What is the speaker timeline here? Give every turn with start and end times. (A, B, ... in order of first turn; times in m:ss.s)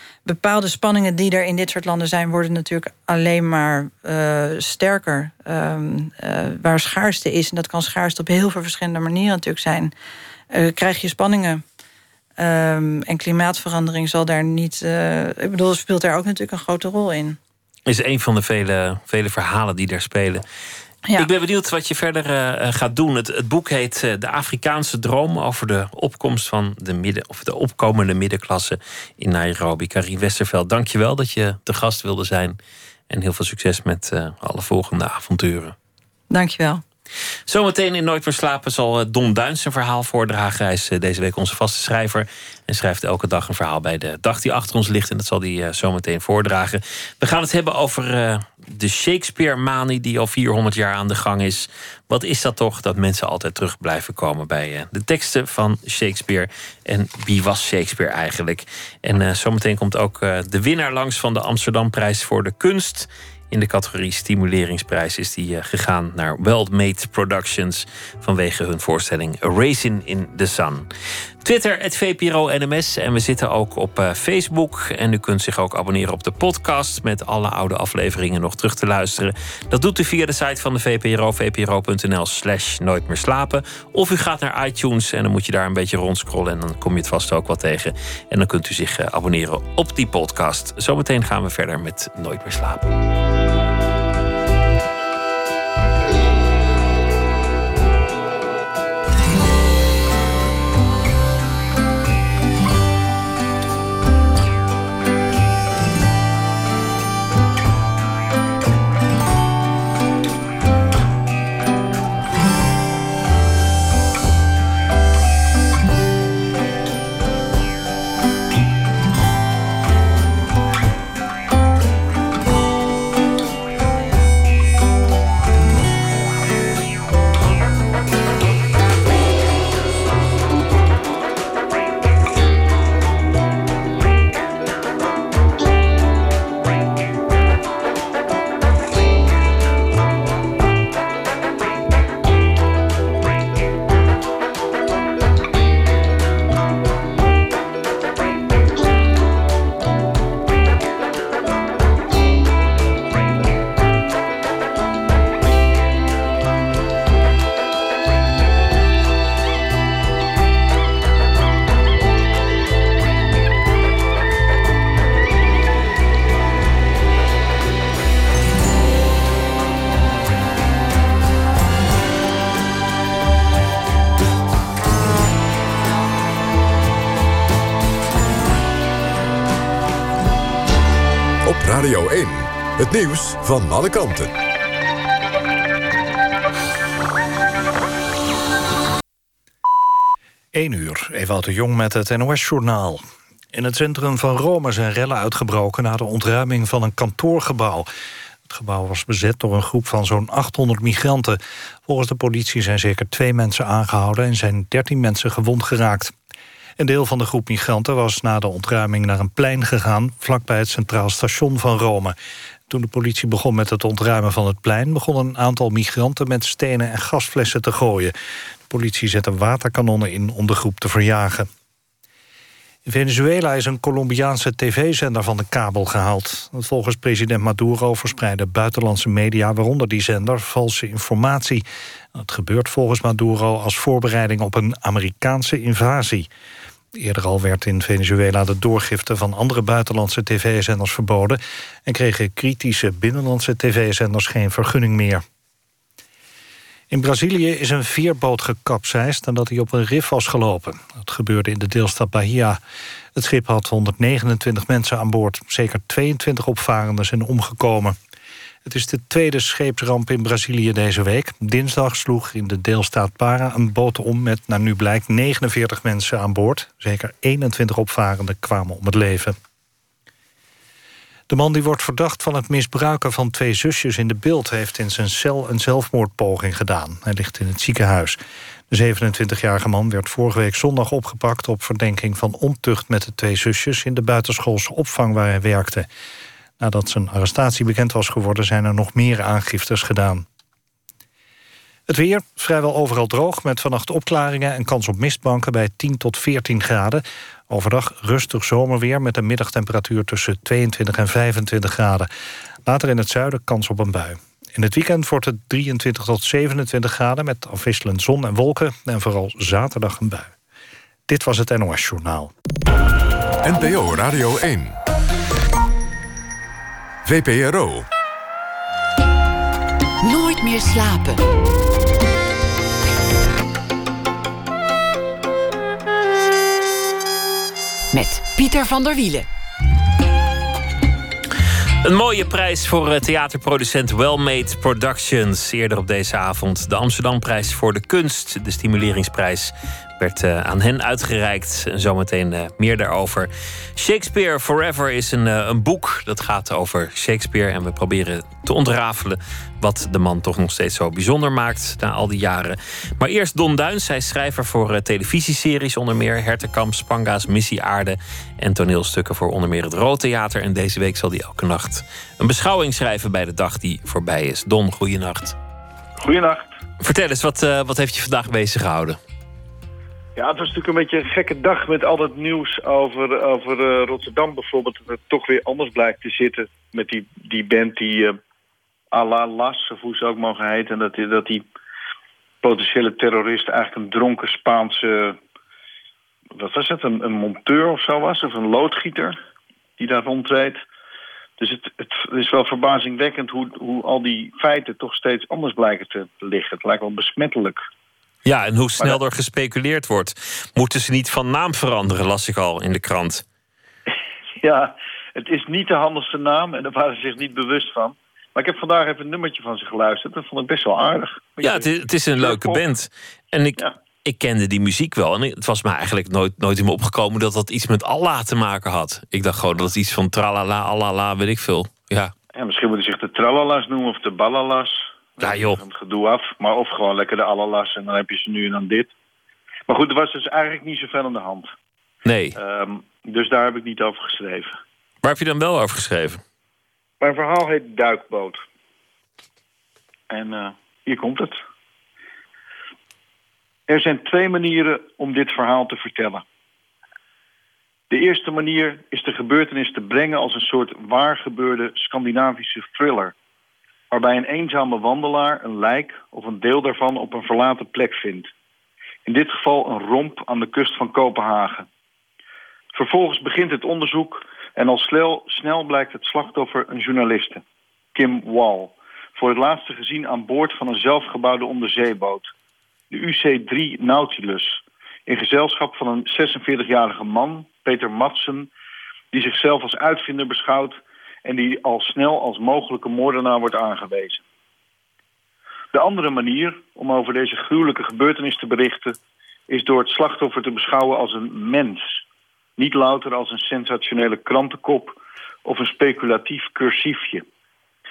0:00.2-0:09.9 A
0:10.5-0:11.6 A
0:12.4-0:17.4 A
0:17.9-0:20.4 B
0:21.2-0:32.6 B
0:33.1-0:35.8 B
0:36.3-0:36.8 A
0:37.5-1:10.9 B
1:11.4-1:32.9 B
3:01.4-3:04.3 C
3:10.5-3:17.9 D
3:18.5-3:26.1 D
3:26.8-3:32.2 D
3:32.7-3:38.1 D
3:38.7-3:41.5 D
3:42.8-3:56.3 D
3:57.0-4:05.2 D
4:06.9-4:12.6 D
4:13.1-4:18.0 D
4:18.6-4:29.4 D
4:31.3-4:38.2 D
4:38.7-4:45.9 D
4:46.6-4:50.2 D
4:51.9-5:02.1 D
5:02.7-5:10.3 D
5:11.1-5:12.3 D
5:13.4-5:14.8 C
5:17.0-5:17.9 C
5:20.0-5:21.2 E
5:27.9-5:29.3 E
5:31.8-6:05.4 B
6:06.0-6:06.5 F
6:06.8-6:09.0 B
6:10.2-6:18.2 F
6:18.9-6:21.4 F
6:22.4-6:25.2 F
6:26.4-6:29.2 F
6:29.8-6:30.6 F
6:31.4-6:37.6 F
6:38.2-6:43.2 B
6:44.4-6:52.6 F
6:51.4-7:02.1 B
7:02.3-7:08.9 F
7:05.2-7:05.6 B
7:09.7-7:11.5 F
7:12.0-7:12.4 B
7:12.4-7:14.6 F
7:15.0-7:16.2 B
7:17.0-7:18.4 F
7:20.1-7:21.4 F
7:23.7-7:26.2 F
7:27.9-7:33.1 F
7:33.9-7:38.3 F
7:39.1-7:41.7 F
7:42.8-7:47.4 F
7:48.0-7:52.3 F
7:52.9-7:58.5 F
7:59.1-8:04.2 F
8:05.7-8:09.0 F
8:09.5-8:12.0 F
8:12.6-8:17.2 F